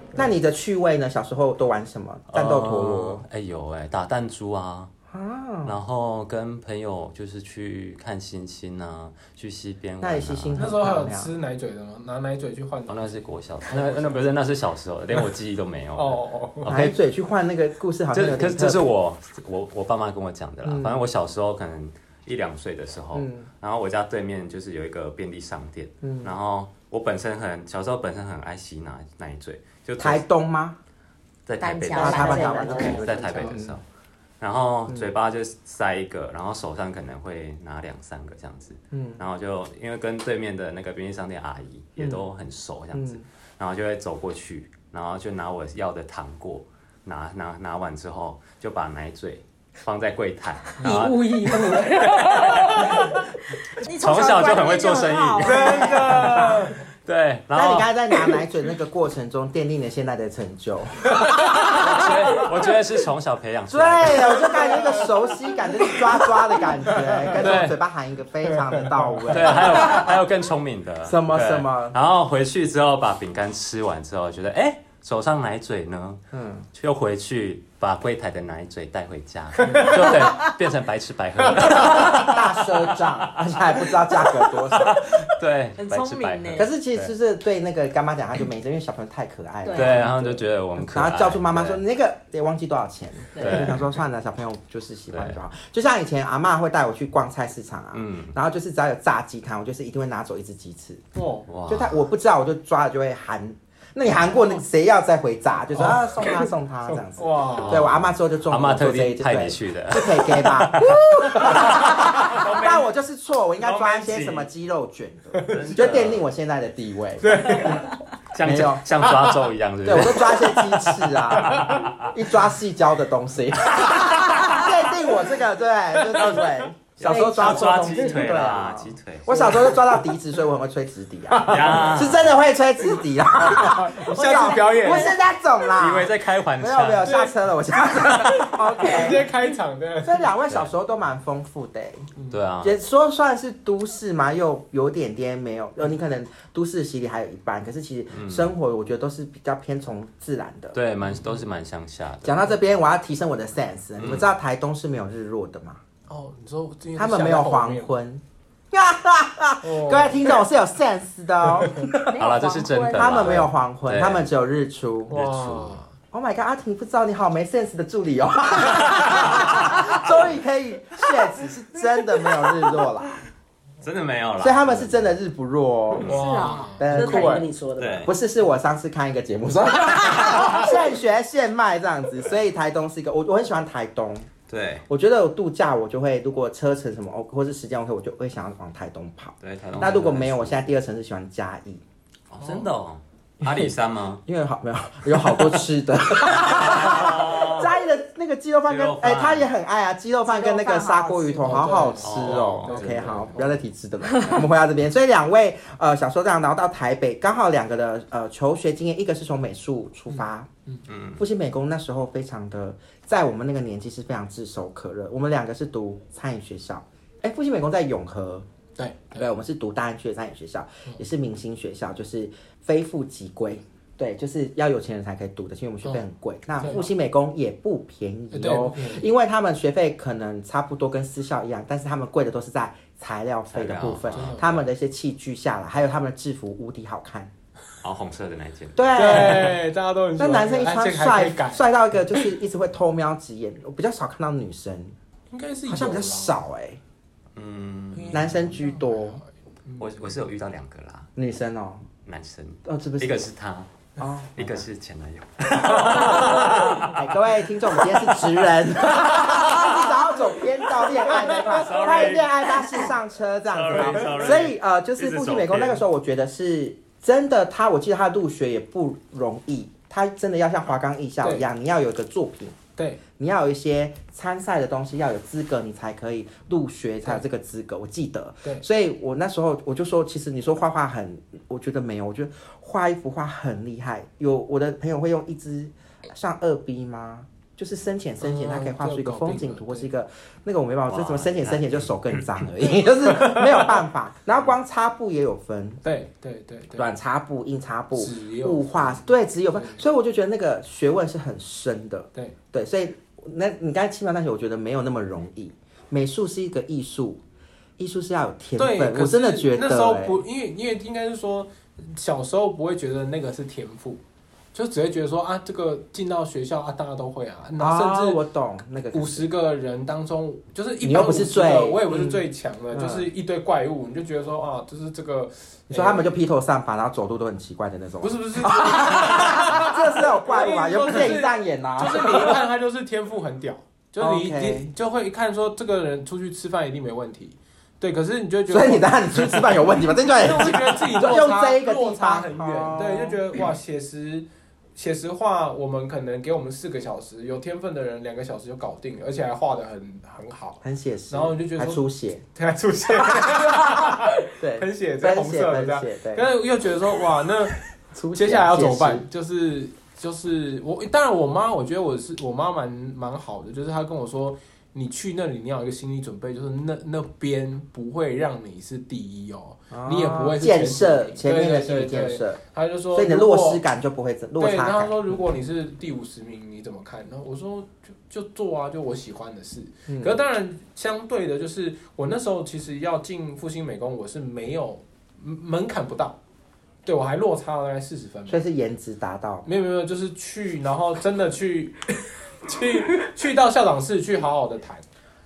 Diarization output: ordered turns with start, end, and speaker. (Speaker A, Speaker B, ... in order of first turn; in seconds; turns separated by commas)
Speaker A: 0.1-3.2, Speaker B: 2.3-4.9, Speaker A: 5.1-5.8, Speaker B: 5.7-10.7, Speaker A: 10.0-11.3, Speaker C: 10.6-13.1, Speaker B: 12.9-16.9, Speaker C: 13.7-14.2, Speaker C: 15.9-16.8, Speaker A: 16.7-18.9, Speaker B: 18.1-30.2, Speaker A: 20.6-21.0, Speaker A: 23.1-23.5, Speaker A: 26.0-26.3, Speaker A: 30.0-30.8, Speaker B: 31.5-33.8, Speaker D: 31.6-33.1, Speaker A: 31.9-33.8, Speaker E: 32.1-32.9, Speaker C: 32.8-33.5, Speaker B: 34.4-53.0, Speaker A: 38.9-39.2, Speaker A: 42.0-42.2, Speaker A: 42.9-43.2, Speaker E: 50.8-53.0, Speaker D: 53.8-56.3, Speaker B: 54.0-56.5, Speaker C: 55.4-56.8, Speaker A: 55.5-56.7, Speaker B: 57.0-57.9, Speaker A: 57.5-62.2, Speaker C: 61.1-62.1, Speaker B: 61.7-64.5, Speaker A: 63.7-70.1, Speaker C: 64.5-65.1, Speaker C: 66.9-67.5, Speaker B: 67.3-67.8, Speaker C: 68.5-69.6, Speaker B: 69.3-76.2, Speaker A: 71.0-72.0, Speaker A: 76.3-76.7, Speaker B: 76.7-82.4, Speaker C: 79.6-80.2, Speaker A: 79.7-80.1, Speaker C: 81.6-82.3, Speaker A: 81.7-85.1, Speaker B: 84.8-87.1, Speaker D: 85.8-86.7, Speaker A: 86.5-101.0, Speaker D: 89.6-90.1, Speaker B: 89.7-91.8, Speaker B: 93.4-93.9, Speaker B: 95.1-95.4, Speaker B: 97.9-98.3, Speaker C: 101.2-101.5, Speaker B: 101.5-102.0, Speaker A: 101.7-117.8, Speaker C: 105.7-107.9, Speaker B: 107.6-111.7, Speaker C: 111.2-112.8, Speaker B: 113.6-114.5, Speaker C: 115.3-115.7, Speaker B: 115.5-116.2, Speaker C: 117.2-118.0, Speaker B: 118.3-120.6, Speaker A: 118.4-118.9, Speaker C: 119.0-119.4, Speaker A: 119.8-139.3, Speaker C: 121.3-121.9, Speaker B: 121.4-122.1, Speaker C: 126.1-126.4, Speaker B: 126.2-129.7, Speaker C: 129.3-130.0, Speaker C: 131.3-132.1, Speaker B: 131.5-132.4, Speaker C: 133.4-135.2, Speaker D: 134.4-135.0, Speaker B: 135.7-137.2, Speaker C: 137.0-137.3, Speaker C: 138.5-140.3, Speaker A: 140.0-142.1, Speaker B: 140.5-140.7, Speaker C: 142.2-142.4, Speaker B: 142.3-142.7, Speaker A: 142.6-150.8, Speaker B: 148.1-148.5, Speaker B: 150.7-152.5, Speaker A: 152.2-155.8, Speaker B: 154.0-154.3, Speaker C: 156.1-157.9, Speaker A: 157.0-162.1, Speaker C: 159.6-160.4, Speaker C: 161.6-161.9, Speaker D: 162.0-163.5, Speaker B: 162.0-164.3, Speaker A: 162.9-165.2, Speaker C: 165.1-165.9, Speaker B: 165.1-165.8, Speaker A: 166.1-173.2, Speaker B: 169.3-169.9, Speaker B: 173.8-175.2, Speaker A: 174.4-176.1, Speaker B: 176.0-176.5, Speaker D: 176.1-176.8, Speaker C: 176.1-177.5, Speaker A: 176.8-177.4, Speaker E: 176.9-178.1, Speaker B: 177.8-178.1, Speaker A: 178.1-184.3, Speaker B: 184.5-184.9, Speaker A: 184.9-191.8, Speaker B: 189.4-190.7, Speaker B: 192.3-194.2, Speaker C: 192.4-192.7, Speaker A: 193.4-193.7, Speaker A: 194.2-210.5, Speaker B: 196.2-197.7, Speaker B: 198.7-199.5, Speaker D: 200.2-201.9, Speaker C: 201.4-203.6, Speaker B: 202.0-203.6, Speaker C: 210.1-210.8, Speaker B: 210.9-211.2, Speaker A: 211.2-218.5, Speaker C: 218.8-219.3, Speaker A: 219.2-237.3, Speaker C: 226.6-226.9, Speaker C: 228.3-229.1, Speaker B: 233.5-234.6, Speaker C: 234.1-234.6, Speaker B: 237.8-239.5, Speaker A: 238.8-239.6, Speaker C: 238.9-242.3, Speaker A: 240.2-244.9, Speaker C: 245.3-246.4, Speaker A: 245.7-246.8, Speaker B: 247.4-248.5, Speaker C: 247.9-250.1, Speaker A: 248.1-249.2, Speaker B: 249.8-251.1, Speaker A: 251.2-251.8, Speaker B: 252.1-253.7, Speaker A: 252.7-253.2, Speaker A: 254.0-254.6, Speaker B: 254.4-257.1, Speaker C: 255.6-256.4, Speaker A: 255.8-272.6, Speaker B: 257.8-258.2, Speaker B: 259.0-259.8, Speaker B: 261.1-262.5, Speaker B: 263.5-265.8, Speaker C: 271.2-271.5, Speaker A: 273.2-295.8, Speaker C: 288.2-289.9, Speaker B: 290.9-292.3, Speaker C: 293.2-293.8, Speaker C: 295.8-296.9, Speaker A: 296.8-307.2, Speaker C: 297.9-299.8, Speaker A: 307.8-310.2, Speaker C: 308.6-314.0, Speaker C: 314.5-318.2, Speaker A: 317.6-319.3, Speaker C: 318.9-326.1, Speaker A: 320.8-323.1, Speaker A: 325.7-332.4, Speaker C: 328.0-339.5, Speaker A: 334.0-334.7, Speaker A: 338.5-343.2, Speaker C: 340.2-351.8, Speaker A: 350.6-352.2, Speaker C: 352.4-357.6, Speaker A: 353.0-356.3, Speaker A: 357.9-359.1, Speaker C: 358.1-373.6, Speaker A: 369.7-372.4, Speaker A: 372.9-374.9, Speaker C: 374.4-386.2, Speaker A: 379.9-380.2, Speaker C: 386.9-388.4, Speaker A: 388.3-389.5, Speaker C: 389.4-394.9